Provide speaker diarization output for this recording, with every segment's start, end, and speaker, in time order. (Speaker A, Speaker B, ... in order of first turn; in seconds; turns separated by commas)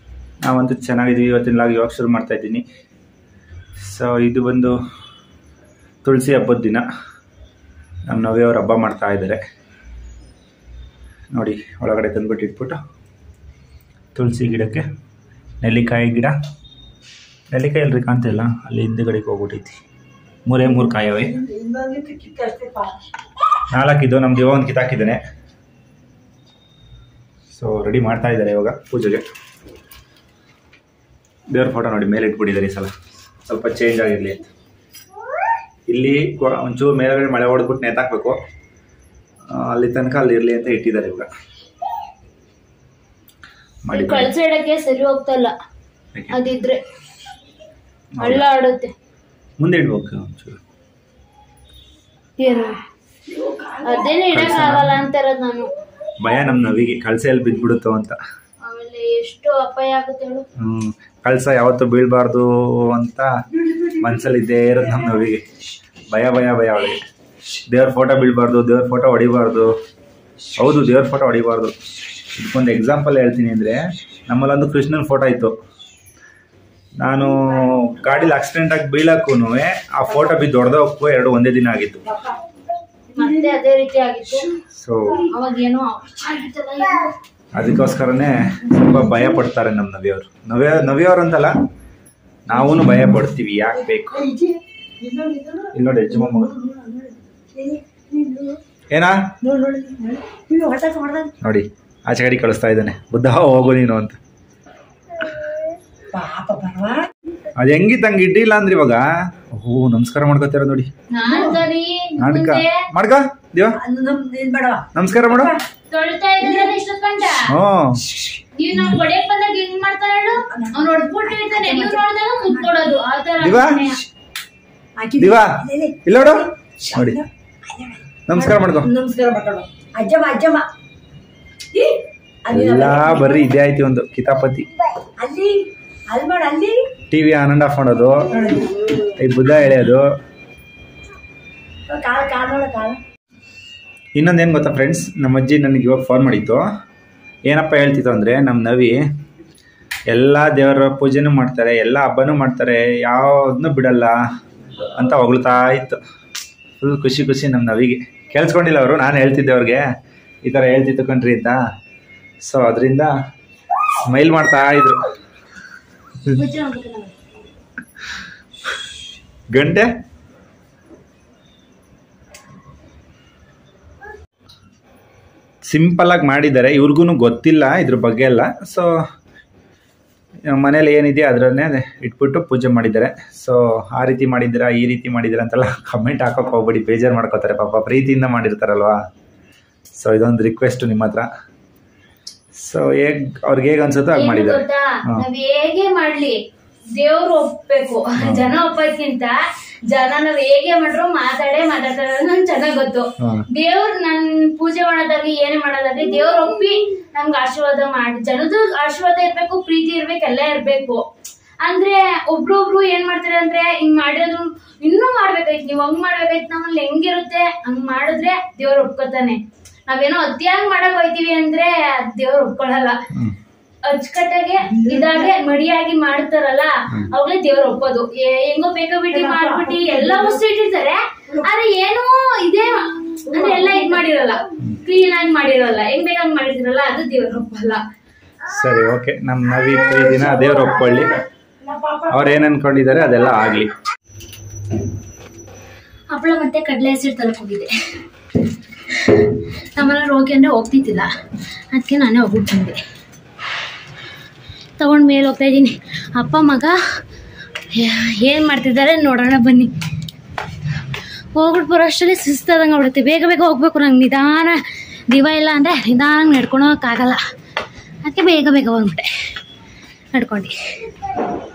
Speaker A: 0.4-2.6, Speaker A: 3.9-4.8, Speaker A: 6.0-6.8, Speaker A: 8.1-9.4, Speaker A: 11.3-12.8, Speaker A: 14.1-14.8, Speaker A: 15.6-16.3, Speaker A: 17.5-19.8, Speaker A: 20.4-21.4, Speaker B: 21.2-22.9, Speaker A: 23.7-25.2, Speaker A: 27.5-29.2, Speaker A: 31.5-32.9, Speaker A: 33.4-34.5, Speaker A: 35.9-38.4, Speaker A: 39.5-41.3, Speaker A: 43.8-44.3, Speaker C: 43.9-45.5, Speaker C: 46.3-46.8, Speaker A: 48.2-48.4, Speaker C: 48.2-48.9, Speaker A: 49.6-50.6, Speaker C: 52.4-52.8, Speaker B: 53.3-54.1, Speaker C: 53.8-55.7, Speaker A: 54.3-55.0, Speaker A: 56.2-58.1, Speaker C: 58.6-60.4, Speaker A: 60.6-63.3, Speaker A: 63.8-65.5, Speaker A: 66.1-67.0, Speaker A: 67.7-69.7, Speaker A: 70.6-71.7, Speaker A: 72.3-75.5, Speaker A: 77.0-82.0, Speaker C: 83.1-84.5, Speaker B: 83.2-83.5, Speaker A: 84.7-85.3, Speaker C: 85.2-87.0, Speaker A: 87.5-91.5, Speaker B: 88.8-89.3, Speaker A: 92.5-94.2, Speaker B: 92.5-92.8, Speaker B: 94.1-98.6, Speaker A: 95.7-96.5, Speaker B: 99.4-101.3, Speaker A: 101.4-104.2, Speaker B: 106.1-107.1, Speaker A: 107.5-110.9, Speaker C: 111.1-112.8, Speaker B: 111.2-111.6, Speaker A: 112.2-113.8, Speaker B: 113.8-115.6, Speaker A: 114.9-115.5, Speaker C: 115.9-117.5, Speaker B: 116.4-116.7, Speaker A: 117.5-118.0, Speaker C: 118.5-124.0, Speaker B: 120.5-122.7, Speaker A: 123.4-123.9, Speaker B: 125.0-130.7, Speaker A: 125.2-127.2, Speaker A: 128.3-128.9, Speaker B: 131.7-133.4, Speaker A: 132.5-134.7, Speaker B: 135.2-136.8, Speaker A: 137.1-138.2, Speaker B: 138.3-138.8, Speaker A: 139.2-140.1, Speaker B: 141.9-143.0, Speaker A: 144.2-146.6, Speaker A: 147.4-149.0, Speaker A: 150.1-154.2, Speaker A: 154.9-156.0, Speaker A: 156.8-159.8, Speaker A: 160.4-161.6, Speaker A: 162.4-163.1, Speaker A: 164.0-165.0, Speaker C: 166.3-167.2, Speaker A: 169.5-169.9, Speaker A: 175.7-178.9, Speaker A: 180.5-189.0, Speaker A: 189.9-191.3, Speaker A: 192.6-195.2, Speaker C: 194.1-196.4, Speaker C: 196.9-199.4, Speaker A: 198.2-198.5, Speaker C: 199.9-211.0, Speaker C: 211.6-223.0, Speaker C: 223.8-237.8, Speaker B: 224.7-225.3, Speaker B: 229.1-230.4, Speaker B: 233.3-234.0, Speaker A: 238.5-241.2, Speaker B: 241.6-242.4, Speaker A: 242.1-243.7, Speaker C: 246.1-247.7, Speaker C: 248.9-251.1, Speaker C: 251.7-252.8, Speaker C: 254.8-256.8, Speaker C: 257.7-259.7, Speaker C: 261.3-267.2, Speaker C: 268.0-269.1, Speaker C: 270.1-270.9